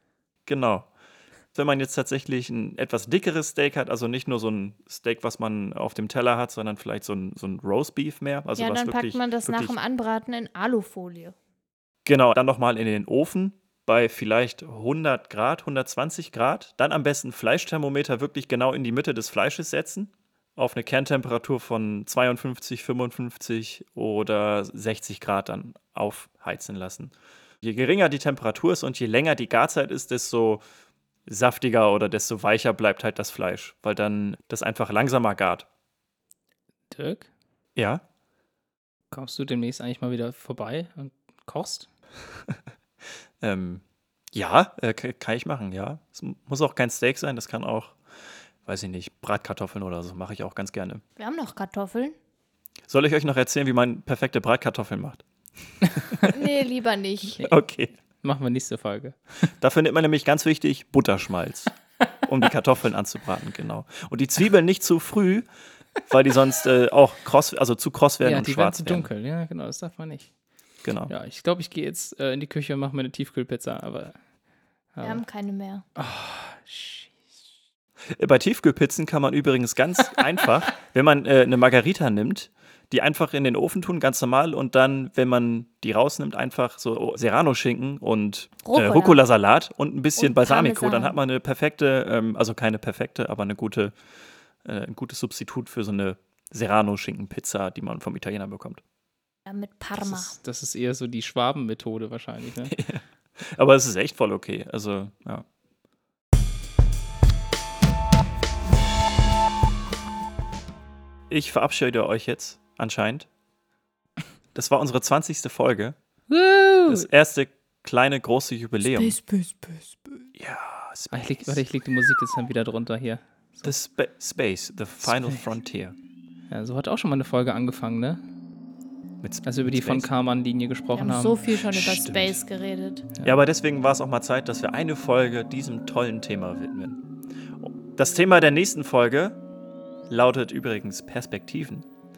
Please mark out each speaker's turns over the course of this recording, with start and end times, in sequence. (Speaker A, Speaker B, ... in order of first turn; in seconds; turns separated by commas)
Speaker A: 0.5-0.9, Speaker A: 1.5-9.7, Speaker B: 8.6-11.3, Speaker A: 12.1-30.6, Speaker A: 31.3-35.7, Speaker C: 36.9-37.3, Speaker A: 37.8-38.0, Speaker C: 39.1-41.9, Speaker A: 43.4-48.0, Speaker A: 48.6-51.0, Speaker B: 51.2-52.2, Speaker A: 52.9-55.3, Speaker B: 56.3-57.4, Speaker A: 57.4-57.9, Speaker C: 58.2-59.2, Speaker A: 59.5-65.5, Speaker A: 66.0-69.1, Speaker C: 68.2-70.3, Speaker A: 70.8-71.1, Speaker C: 71.1-74.2, Speaker C: 75.0-75.2, Speaker B: 75.0-75.8, Speaker C: 76.0-77.2, Speaker A: 78.2-94.0, Speaker B: 88.6-89.2, Speaker B: 90.2-91.2, Speaker A: 94.6-98.8, Speaker B: 99.5-100.3, Speaker C: 100.0-102.7, Speaker A: 102.7-105.5, Speaker A: 111.3-113.3, Speaker A: 114.5-116.0, Speaker C: 116.3-117.1, Speaker A: 116.9-119.2, Speaker B: 118.9-119.8, Speaker A: 120.3-121.6, Speaker C: 121.1-123.7, Speaker A: 123.6-126.0, Speaker C: 125.0-125.4, Speaker C: 126.5-128.2, Speaker A: 129.2-130.1, Speaker C: 129.4-131.4, Speaker B: 130.9-133.1, Speaker A: 131.7-132.4, Speaker A: 133.2-137.0, Speaker A: 137.6-139.4, Speaker A: 140.1-141.9